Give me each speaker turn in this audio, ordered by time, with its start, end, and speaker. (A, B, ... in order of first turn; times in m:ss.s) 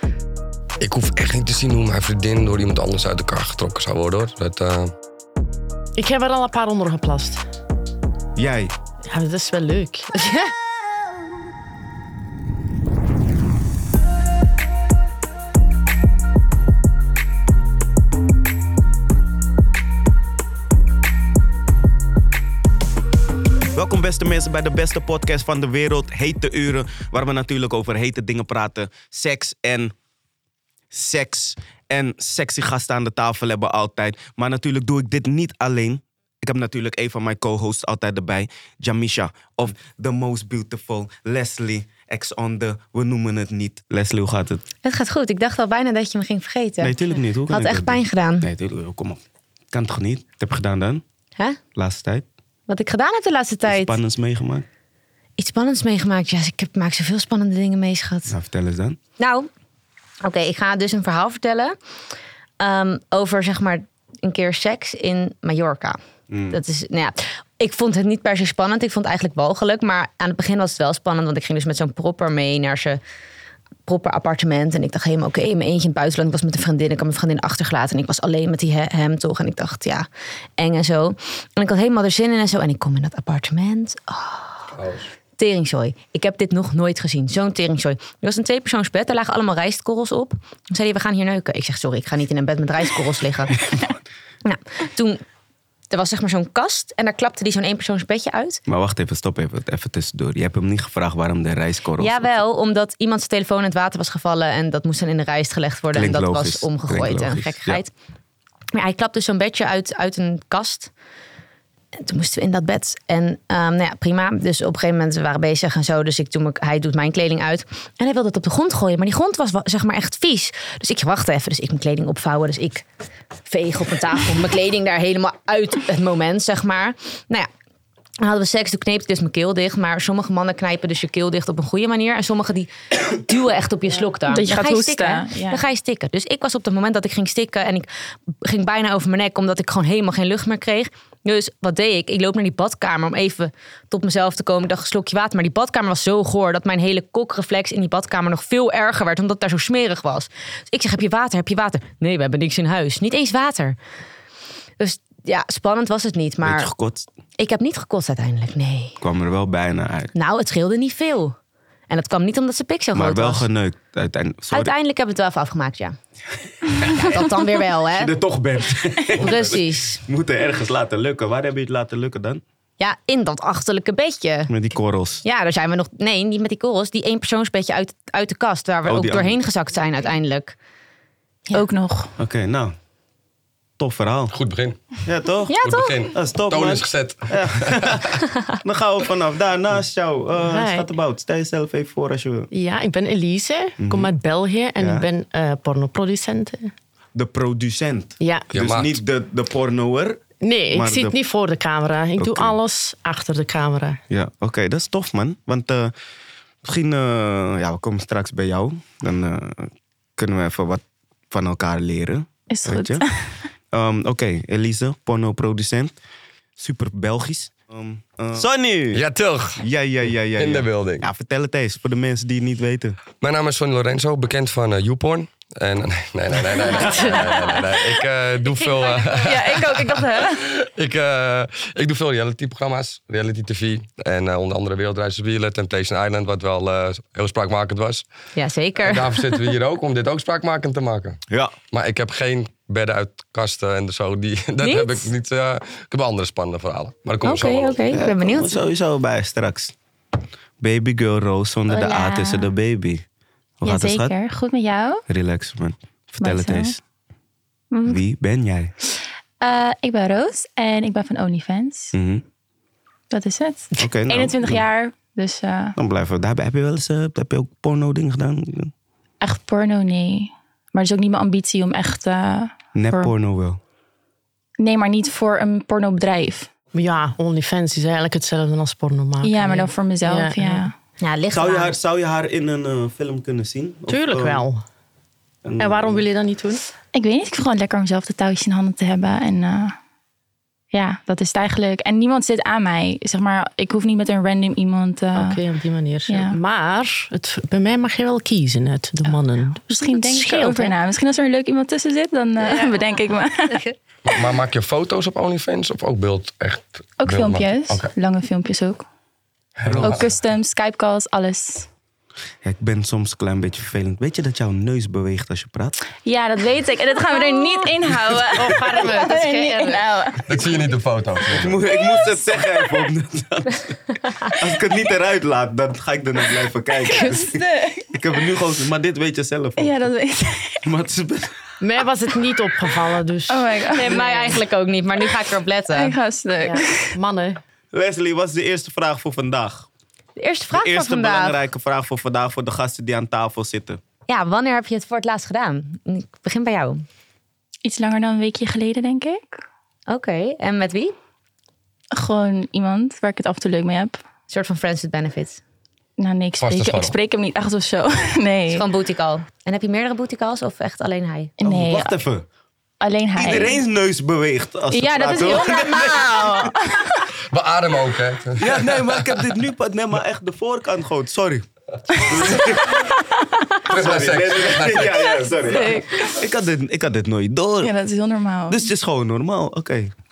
0:00.8-0:04.9 A
0:06.0-0:07.4 B
0:08.4-0:08.7 C
0:09.1-0:10.5 B
0:23.7-0:29.9 C
0:30.9-0:44.6 C
0:44.8-0:47.0 D
0:46.8-0:51.0 C
0:47.5-0:48.5 D
0:51.8-0:52.3 C
0:52.7-0:54.0 D
0:53.6-0:54.7 C
0:55.4-0:58.3 D
0:58.3-0:59.0 C
0:59.2-0:59.5 D
1:00.2-1:01.8 D
1:02.6-1:06.0 D
1:06.3-1:06.6 C
1:06.5-1:13.0 D
1:13.9-1:20.1 D
1:20.6-1:24.7 D
1:24.7-1:25.1 A
1:25.4-1:33.6 D
1:34.4-1:35.2 D
1:35.9-1:38.6 D
1:38.7-1:42.3 C
1:42.0-1:47.9 D
1:45.9-1:47.8 C
1:48.7-1:50.9 D
1:52.0-2:02.8 D
2:03.5-2:07.5 D
2:08.2-2:17.9 D
2:14.3-2:15.6 E
2:18.4-2:33.8 D
2:34.8-2:36.7 D
2:36.4-2:37.1 C
2:37.4-2:39.0 D
2:39.0-2:40.1 C
2:40.2-2:41.4 D
2:41.9-2:43.5 D
2:42.9-2:44.7 C
2:44.5-2:46.0 D
2:46.8-2:47.2 C
2:46.9-2:48.2 D
2:47.9-2:52.4 C
2:49.2-2:50.0 D
2:52.8-2:54.5 D
2:54.5-2:55.2 C
2:55.2-3:00.6 D
2:58.8-2:59.4 C
3:01.5-3:02.1 E
3:02.2-3:02.7 C
3:03.8-3:04.4 C
3:04.3-3:05.0 A
3:05.0-3:05.6 C
3:05.5-3:06.0 D
3:05.6-3:08.2 A
3:06.1-3:12.5 C
3:10.4-3:10.9 B
3:12.5-3:16.7 B
3:13.8-3:14.1 C
3:14.8-3:15.1 C
3:17.2-3:21.2 C
3:18.2-3:18.5 B
3:18.5-3:19.0 A
3:20.4-3:24.0 B
3:22.2-3:22.6 C
3:24.1-3:25.9 C
3:26.6-3:33.1 C
3:32.5-3:33.3 E
3:33.7-3:36.0 C
3:36.6-3:39.1 C
3:38.9-3:39.6 A
3:39.6-3:43.0 C
3:40.4-3:41.1 A
3:43.2-3:58.0 A
3:47.0-3:47.6 E
3:48.6-3:50.0 D
3:49.1-3:50.4 E
3:58.4-3:59.5 D
3:58.8-4:07.8 A
4:01.3-4:01.6 C
4:04.6-4:05.1 D
4:07.2-4:08.6 D
4:07.9-4:09.7 C
4:10.6-4:13.0 C
4:11.7-4:12.5 E
4:13.6-4:14.2 C
4:13.6-4:15.0 E
4:15.1-4:16.8 C
4:16.2-4:16.7 E
4:17.8-4:18.7 C
4:19.4-4:21.9 E
4:21.9-4:22.2 C
4:23.1-4:25.8 E
4:23.8-4:24.7 C
4:25.8-4:28.7 C
4:29.2-4:33.1 E
4:32.8-4:33.6 C
4:34.6-4:36.5 E
4:36.8-4:40.7 B
4:39.2-4:40.7 E
4:41.0-4:41.7 D
4:41.3-4:44.4 C
4:43.9-4:44.6 B
4:45.4-4:46.0 C
4:45.6-4:46.6 B
4:46.9-4:49.8 E
4:50.7-4:55.4 E
4:55.2-5:00.8 B
4:56.1-4:56.4 E
4:59.7-5:03.7 E
5:04.0-5:07.9 A
5:07.0-5:08.9 E
5:09.6-5:10.1 A
5:09.7-5:10.1 C
5:09.8-5:11.7 E
5:12.4-5:15.8 C
5:16.1-5:20.3 E
5:17.9-5:18.2 C
5:18.3-5:19.8 B
5:20.2-5:21.6 A
5:21.3-5:29.8 C
5:26.9-5:28.0 E
5:29.6-5:30.6 E
5:30.6-5:31.4 C
5:31.6-5:34.3 B
5:33.3-5:34.1 E
5:33.8-5:36.0 D
5:35.7-5:36.9 E
5:36.4-5:37.4 B
5:37.7-5:39.7 C
5:40.2-5:41.4 D
5:40.5-5:43.8 C
5:44.1-5:46.8 D
5:47.6-5:49.4 E
5:49.9-5:51.0 D
5:51.9-5:54.0 E
5:54.3-5:55.4 D
5:56.0-5:58.7 E
5:56.4-5:57.0 A
5:58.5-6:01.3 D
6:01.4-6:02.0 E
6:01.4-6:02.3 C
6:02.8-6:03.6 E
6:03.2-6:06.6 C
6:04.7-6:07.0 E
6:07.3-6:09.3 A
6:08.4-6:13.0 C
6:12.7-6:13.1 E
6:13.7-6:15.4 A
6:13.7-6:17.8 C
6:15.5-6:16.2 E
6:17.6-6:18.7 E
6:18.5-6:19.9 C